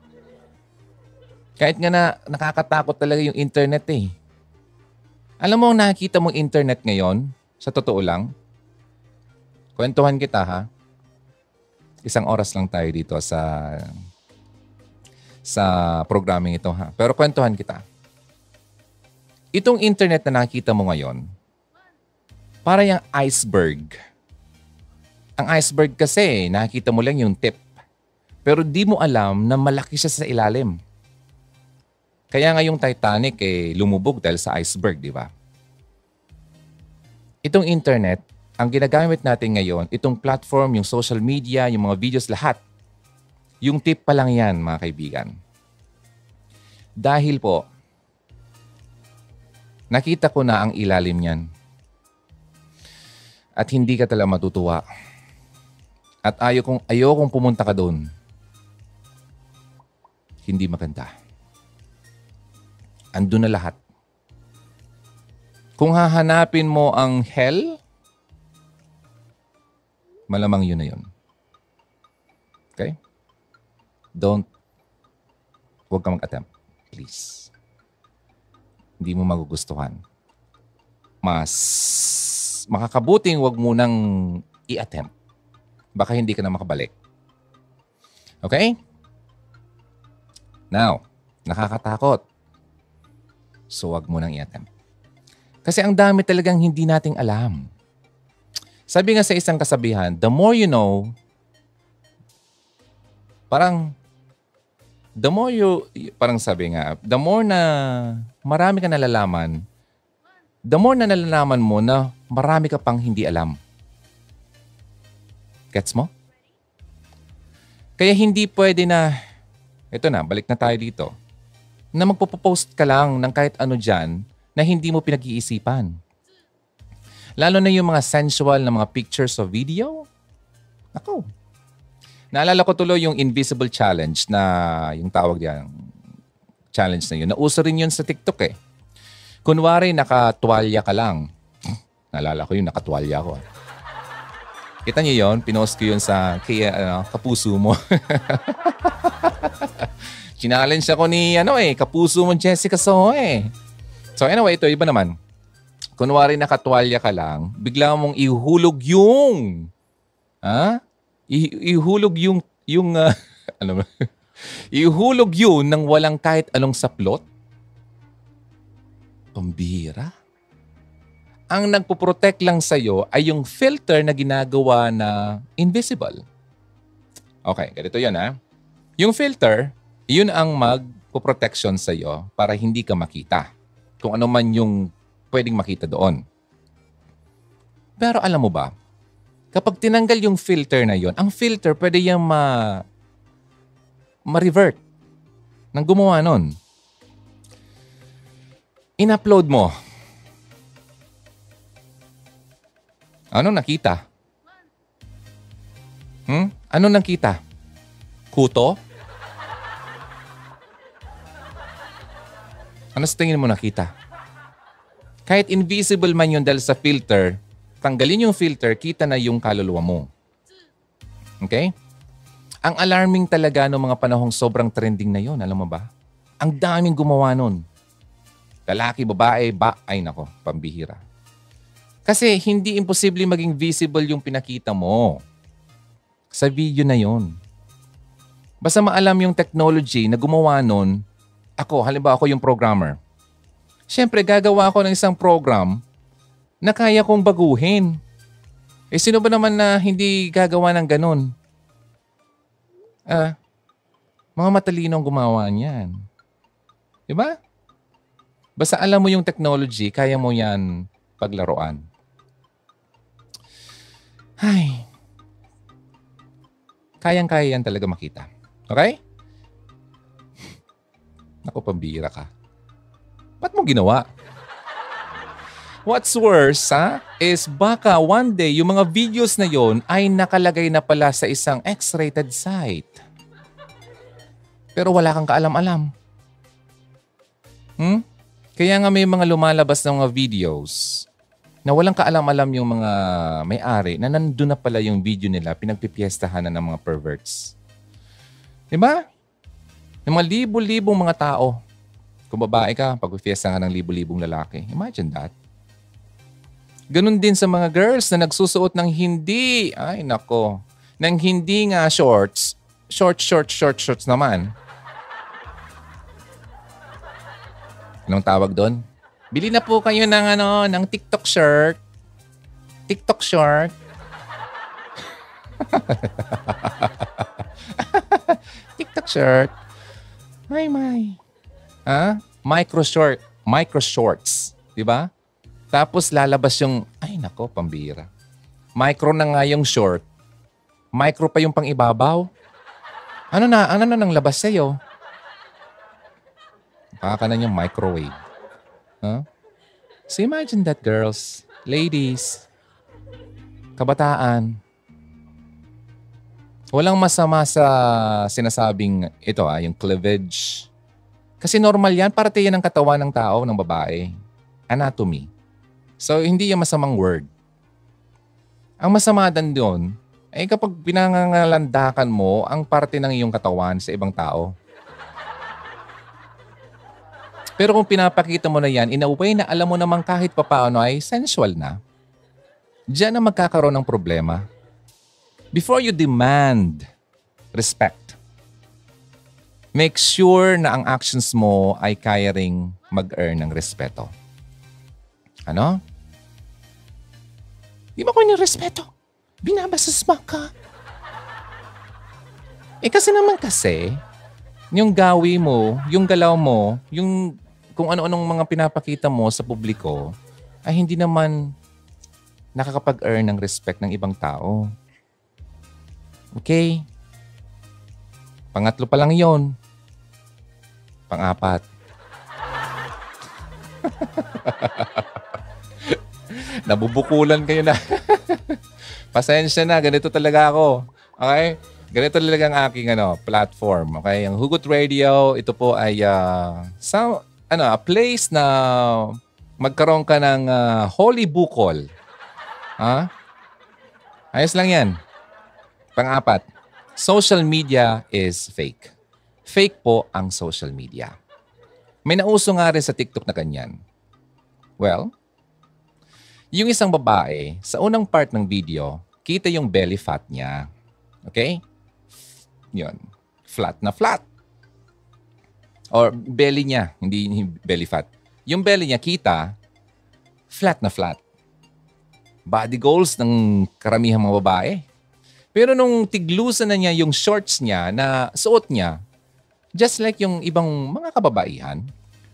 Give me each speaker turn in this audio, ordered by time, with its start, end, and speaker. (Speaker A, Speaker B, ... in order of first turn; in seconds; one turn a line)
Speaker A: 1.6-4.1
Speaker A: 5.4-8.3
Speaker A: 9.8-10.7
Speaker A: 12.1-13.9
Speaker A: 15.5-17.8
Speaker A: 19.6-21.2
Speaker A: 22.7-24.0
Speaker A: 25.4-27.6
Speaker A: 28.4-30.8
Speaker A: 32.3-35.3
Speaker A: 37.5-42.6
Speaker A: 43.6-45.3
Speaker A: 47.0-47.6
Speaker A: 49.9-51.4
Speaker A: 53.6-54.8
Speaker A: 56.2-58.0
Speaker A: 60.5-61.1
Speaker A: 63.1-63.8
Speaker A: 65.8-67.8
Speaker A: 70.3-71.0
Speaker A: 74.2-74.5
Speaker A: 75.9-77.5
Speaker A: 79.0-80.0
Speaker A: 81.2-85.1
Speaker A: 86.0-86.9
Speaker A: 88.4-88.8
Speaker A: 90.7-92.2
Speaker A: 93.7-94.7
Speaker A: 95.7-97.7
Speaker A: 98.9-101.1
Speaker A: 103.5-103.9
Speaker A: 105.2-109.6
Speaker A: 110.7-113.6
Speaker A: 115.7-116.1
Speaker A: 118.0-119.2
Speaker A: 119.9-121.1
Speaker A: 122.0-125.9
Speaker A: 127.4-130.1
Speaker A: 130.9-131.3
Speaker A: 132.3-135.7
Speaker A: 136.7-138.6
Speaker A: 139.4-141.3
Speaker A: 142.1-143.4
Speaker A: 144.9-153.5
Speaker A: 154.2-155.2
Speaker A: 156.0-159.7
Speaker A: 160.4-160.8
Speaker A: 161.3-167.2
Speaker A: 169.3-170.1
Speaker A: 171.5-176.2
Speaker A: 177.4-178.4
Speaker A: 179.0-183.5
Speaker A: 184.0-186.2
Speaker A: 188.0-188.7
Speaker A: 189.5-192.8
Speaker A: 194.3-194.8
Speaker A: 195.7-196.6
Speaker A: 199.0-199.7
Speaker A: 203.3-204.0
Speaker A: 206.3-207.4
Speaker A: 208.3-208.8
Speaker A: 213.0-213.9
Speaker A: 215.3-220.1
Speaker A: 221.4-221.7
Speaker A: 222.7-225.9
Speaker A: 226.4-227.6
Speaker A: 228.7-231.0
Speaker A: 232.1-235.2
Speaker A: 236.3-237.3
Speaker A: 238.6-241.0
Speaker A: 241.6-243.0
Speaker A: 243.9-245.8
Speaker A: 246.6-248.0
Speaker A: 248.9-251.3
Speaker A: 253.1-253.3
Speaker A: 254.4-256.0
Speaker A: 257.1-257.4
Speaker A: 258.6-260.6
Speaker A: 261.2-261.8
Speaker A: 264.4-264.9
Speaker A: 267.0-269.0
Speaker A: 271.4-272.3
Speaker A: 273.4-274.1
Speaker A: 275.9-283.0
Speaker A: 284.8-285.9
Speaker A: 288.6-291.1
Speaker A: 291.7-297.6
Speaker A: 298.7-299.0
Speaker A: 300.1-301.6
Speaker A: 302.3-305.3
Speaker A: 306.9-314.5
Speaker A: 318.1-318.8
Speaker A: 319.3-321.8
Speaker A: 322.9-323.7
Speaker A: 325.6-329.6
Speaker A: 330.5-331.2
Speaker A: 331.9-335.1
Speaker A: 335.7-338.1
Speaker A: 338.8-340.1
Speaker A: 341.0-342.3
Speaker A: 343.3-344.8
Speaker A: 347.0-348.2
Speaker A: 350.1-352.4
Speaker A: 353.8-354.6
Speaker A: 356.7-360.7
Speaker A: 361.4-364.1
Speaker A: 364.7-365.3
Speaker A: 366.0-367.3
Speaker A: 368.8-374.5
Speaker A: 377.6-381.8
Speaker A: 382.9-384.5
Speaker A: 385.5-386.9
Speaker A: 387.5-388.2
Speaker A: 389.8-394.1
Speaker A: 395.5-395.8
Speaker A: 398.0-398.9
Speaker A: 399.4-400.5
Speaker A: 402.8-404.0
Speaker A: 404.7-410.1
Speaker A: 410.7-411.5
Speaker A: 412.6-414.7
Speaker A: 416.4-416.8
Speaker A: 418.6-419.5
Speaker A: 421.1-421.6
Speaker A: 423.8-425.1
Speaker A: 425.9-428.6
Speaker A: 429.1-441.9
Speaker A: 442.8-443.1
Speaker A: 444.3-445.0
Speaker A: 446.0-446.5
Speaker A: 447.0-448.9
Speaker A: 449.5-451.1
Speaker A: 452.1-453.7
Speaker A: 454.8-455.1
Speaker A: 456.5-460.7
Speaker A: 461.3-461.6
Speaker A: 462.7-464.2
Speaker A: 465.9-469.6
Speaker A: 470.5-471.2
Speaker A: 472.5-474.9
Speaker A: 475.6-479.0
Speaker A: 479.8-481.8